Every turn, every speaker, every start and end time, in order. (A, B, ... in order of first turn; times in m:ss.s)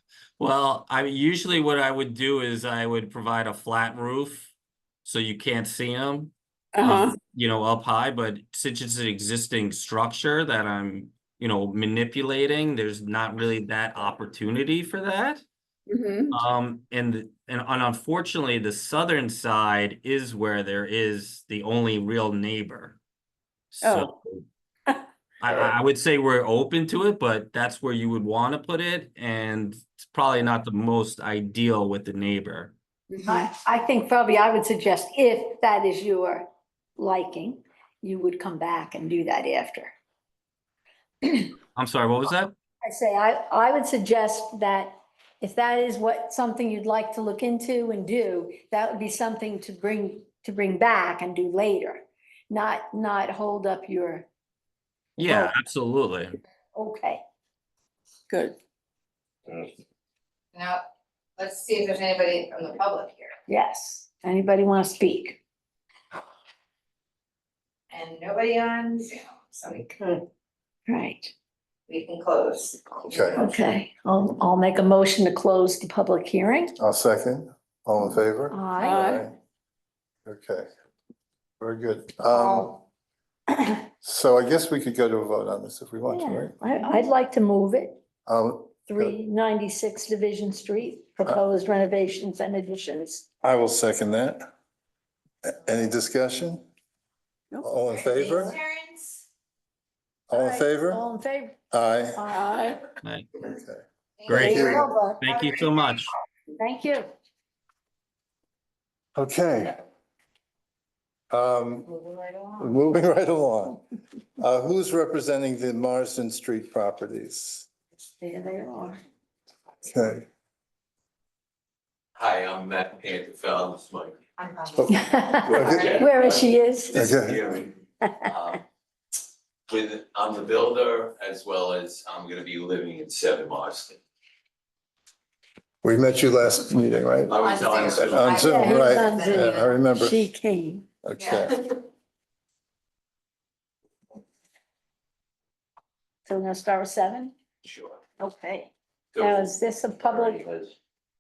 0:00.4-0:04.5 A
0:05.0-0:15.4 A
0:06.7-0:07.2 B
0:15.9-0:16.4 B
0:16.3-0:23.0 A
0:23.7-0:24.4 A
0:23.8-0:24.1 B
0:25.4-0:32.7 A
0:33.3-0:36.5 C
0:37.0-0:39.9 C
0:41.2-0:41.5 C
0:41.8-0:42.5 A
0:42.8-0:54.3 C
0:55.2-0:56.4 A
0:55.2-0:55.5 C
0:56.8-0:57.2 C
0:58.3-0:58.6 B
1:00.5-1:00.9 D
1:01.4-1:03.3 D
1:03.5-1:05.4 C
1:07.9-1:10.2 D
1:10.9-1:11.3 C
1:11.9-1:13.6 D
1:13.1-1:13.4 E
1:13.4-1:16.7 C
1:16.8-1:19.4 E
1:18.5-1:19.0 C
1:18.8-1:19.3 B
1:20.2-1:20.7 E
1:21.6-1:22.8 E
1:22.4-1:22.7 C
1:24.0-1:26.6 E
1:26.1-1:28.0 C
1:28.3-1:29.2 E
1:28.9-1:33.3 C
1:33.4-1:34.5 E
1:35.4-1:36.7 E
1:37.6-1:38.6 E
1:38.1-1:39.1 D
1:40.3-1:41.0 E
1:40.3-1:41.6 C
1:41.7-1:42.2 E
1:42.2-1:42.7 C
1:42.3-1:42.8 B
1:43.0-1:43.3 A
1:43.4-1:44.9 E
1:44.2-1:45.8 D
1:44.3-1:46.1 A
1:44.3-1:45.2 C
1:46.6-1:47.1 C
1:49.2-1:49.8 E
1:51.3-1:51.9 E
1:52.6-1:53.8 E
1:54.4-1:57.7 E
1:58.2-1:59.0 C
1:59.8-2:00.2 E
2:02.2-2:04.2 F
2:04.4-2:04.9 D
2:04.8-2:06.0 E
2:04.9-2:07.0 C
2:05.6-2:05.9 D
2:05.7-2:08.6 F
2:06.9-2:07.4 E
2:08.0-2:08.3 C
2:09.7-2:14.0 F
2:15.8-2:17.4 E
2:17.3-2:18.4 F
2:17.4-2:19.8 D
2:18.0-2:20.2 E
2:18.3-2:20.9 C
2:21.0-2:21.6 E
2:21.2-2:21.5 D
2:26.3-2:27.3 C
2:27.6-2:28.0 F
2:28.2-2:30.5 C
2:29.2-2:30.7 F